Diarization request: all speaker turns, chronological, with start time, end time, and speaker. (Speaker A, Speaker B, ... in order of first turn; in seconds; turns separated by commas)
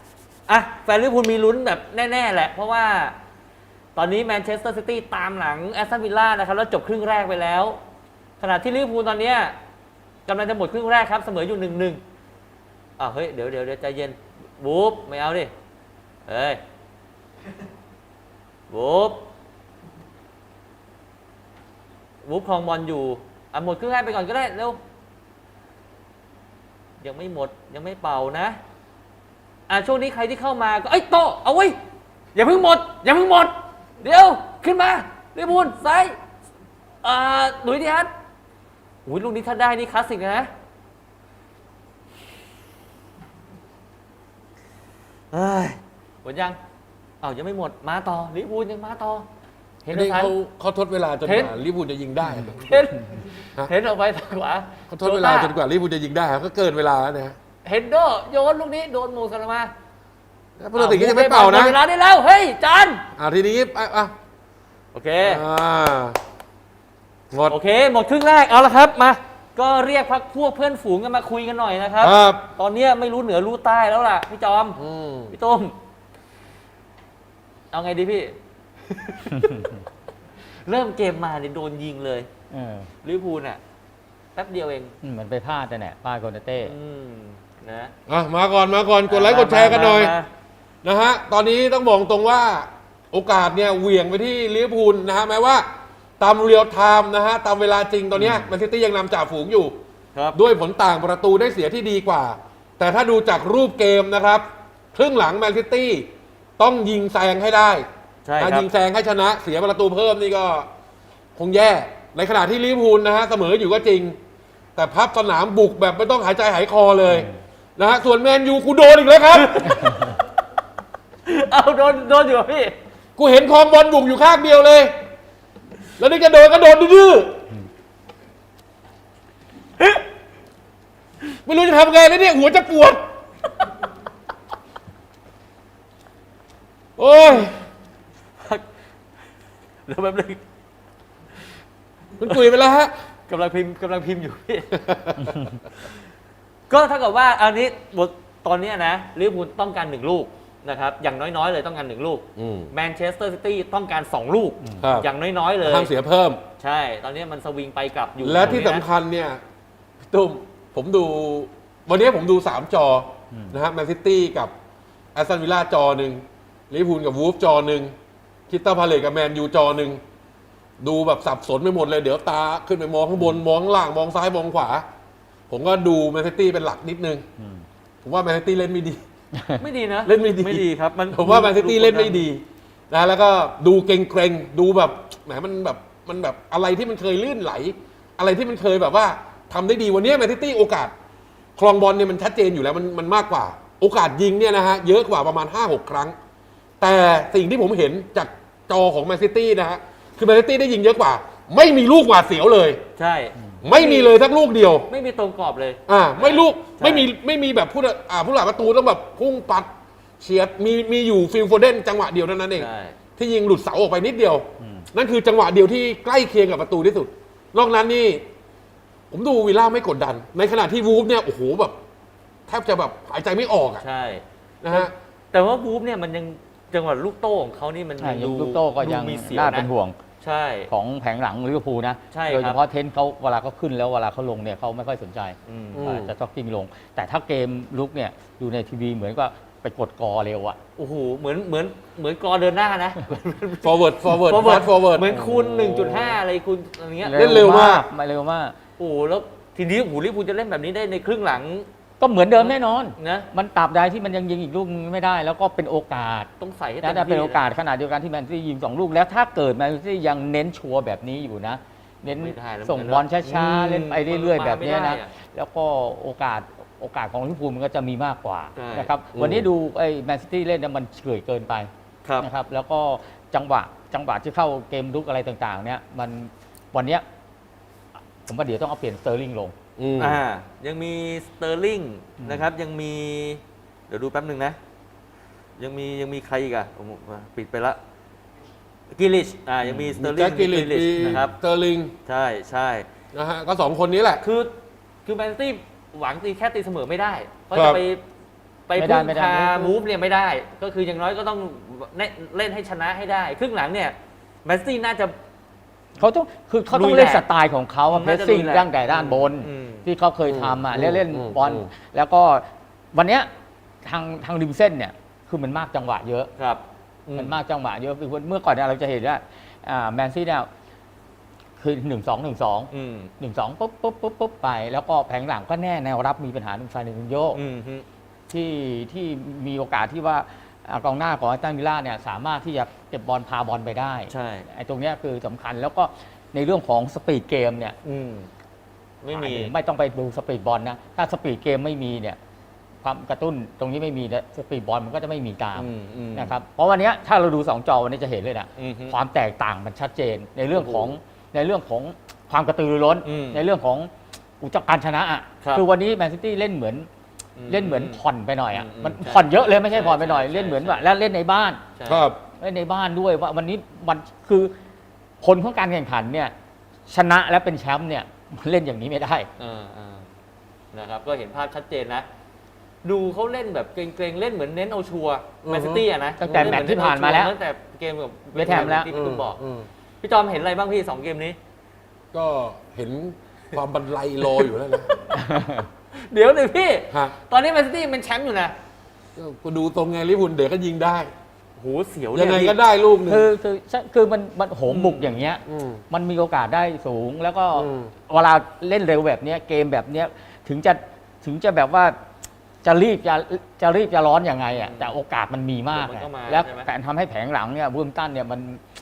Speaker A: 0.5-3.1, Speaker A: 4.0-7.8, Speaker A: 8.4-9.6, Speaker A: 10.3-12.0, Speaker A: 13.0-15.5, Speaker A: 16.3-16.6, Speaker A: 18.7-19.2, Speaker A: 22.2-24.8, Speaker A: 27.0-28.6, Speaker A: 29.7-31.8, Speaker A: 32.3-36.1, Speaker A: 37.0-38.1, Speaker A: 39.0-40.5, Speaker A: 45.3-46.6, Speaker A: 47.2-49.2, Speaker A: 49.8-50.3, Speaker B: 49.9-52.8, Speaker A: 51.2-51.5, Speaker A: 52.6-55.5, Speaker B: 54.9-57.4, Speaker A: 57.6-59.7, Speaker B: 60.6-61.8, Speaker A: 60.7-63.0, Speaker B: 63.1-64.1, Speaker A: 64.9-65.4, Speaker B: 65.2-66.2, Speaker B: 67.3-67.5, Speaker A: 67.5-74.8, Speaker B: 72.0-72.5, Speaker B: 74.8-75.3, Speaker A: 75.3-75.7, Speaker A: 77.7-78.3, Speaker A: 78.9-79.7, Speaker A: 80.6-82.3, Speaker C: 82.5-82.9, Speaker A: 83.0-83.6, Speaker A: 84.3-84.9, Speaker C: 85.0-86.7, Speaker A: 86.6-87.9, Speaker B: 88.1-90.1, Speaker A: 89.1-90.3, Speaker B: 90.8-95.7, Speaker B: 96.2-99.8, Speaker A: 98.1-98.5, Speaker B: 100.3-107.9, Speaker A: 108.2-108.7, Speaker B: 108.4-110.7, Speaker B: 111.3-114.2, Speaker B: 114.8-119.8, Speaker A: 119.5-119.9, Speaker A: 121.2-122.7, Speaker B: 123.2-124.9, Speaker B: 126.0-127.4, Speaker B: 131.4-133.0, Speaker B: 137.0-137.6, Speaker A: 139.9-140.4, Speaker B: 142.2-142.9, Speaker A: 143.3-145.9, Speaker B: 144.7-145.4, Speaker A: 146.7-155.9, Speaker B: 152.3-152.7, Speaker C: 154.6-154.9, Speaker B: 154.8-155.1, Speaker B: 155.6-156.4, Speaker A: 156.6-158.8, Speaker B: 158.2-159.4, Speaker B: 160.1-164.5, Speaker C: 163.3-163.6, Speaker B: 165.1-167.9, Speaker B: 168.5-170.0, Speaker B: 170.8-174.8, Speaker B: 175.5-177.2, Speaker C: 177.4-177.6, Speaker B: 178.0-179.0, Speaker A: 179.6-182.3, Speaker B: 180.0-190.9, Speaker B: 191.6-196.1, Speaker B: 196.8-202.8, Speaker A: 202.9-204.2, Speaker B: 203.6-204.9, Speaker A: 204.9-207.1, Speaker B: 205.9-218.2, Speaker A: 212.6-213.0, Speaker C: 214.6-214.9, Speaker B: 219.1-221.8, Speaker B: 222.5-223.8, Speaker A: 223.8-229.7, Speaker B: 224.6-224.9, Speaker C: 228.0-230.0, Speaker A: 230.2-230.7, Speaker C: 230.7-240.6, Speaker A: 232.1-232.6, Speaker A: 235.4-236.1, Speaker A: 240.8-247.4, Speaker B: 243.6-246.2, Speaker C: 245.1-245.4, Speaker C: 247.0-248.5, Speaker B: 247.1-247.8, Speaker A: 248.8-251.7, Speaker C: 252.0-256.3, Speaker A: 252.4-253.3, Speaker A: 256.4-257.4, Speaker C: 256.8-277.0, Speaker A: 262.2-265.1, Speaker A: 268.5-268.9, Speaker B: 269.1-269.5, Speaker C: 278.2-279.5, Speaker B: 279.8-280.2, Speaker A: 280.0-284.6, Speaker C: 282.2-282.5, Speaker A: 285.6-287.8, Speaker A: 288.9-291.4, Speaker C: 289.6-289.9, Speaker B: 289.9-291.9, Speaker A: 292.1-292.9, Speaker B: 293.1-294.2, Speaker A: 294.2-294.5, Speaker A: 295.0-298.0, Speaker B: 297.5-297.8, Speaker A: 298.7-305.1, Speaker C: 298.7-299.8, Speaker C: 306.0-313.3, Speaker A: 306.7-307.2, Speaker A: 307.9-309.9, Speaker B: 310.2-311.7, Speaker C: 313.8-316.3, Speaker A: 316.4-317.4, Speaker C: 317.1-320.5, Speaker C: 321.6-327.4, Speaker A: 322.7-323.1, Speaker A: 327.3-327.8, Speaker C: 328.3-337.8, Speaker A: 334.1-334.5, Speaker A: 337.8-338.3, Speaker A: 339.0-339.5, Speaker C: 339.1-342.2, Speaker C: 342.8-356.9, Speaker A: 345.6-346.4, Speaker A: 348.6-348.9, Speaker A: 350.5-350.9, Speaker A: 353.0-353.4, Speaker A: 357.4-358.0, Speaker C: 357.5-361.6, Speaker A: 358.5-360.9, Speaker A: 361.8-362.0, Speaker B: 361.9-362.2, Speaker C: 362.4-364.5, Speaker C: 365.2-366.3, Speaker C: 366.9-369.3, Speaker A: 369.4-370.1, Speaker A: 370.7-372.1, Speaker A: 372.8-379.4, Speaker B: 375.4-376.6, Speaker C: 376.2-377.3, Speaker C: 378.3-378.9, Speaker B: 378.5-379.7, Speaker A: 380.0-381.4, Speaker B: 382.1-384.9, Speaker C: 385.1-385.7, Speaker A: 385.9-388.5, Speaker B: 389.1-391.1, Speaker A: 391.6-392.6, Speaker B: 392.1-393.3, Speaker C: 393.1-401.9, Speaker A: 394.7-395.2, Speaker B: 395.4-395.8, Speaker B: 397.5-397.9, Speaker C: 402.6-408.6, Speaker A: 404.5-404.9, Speaker A: 405.7-406.7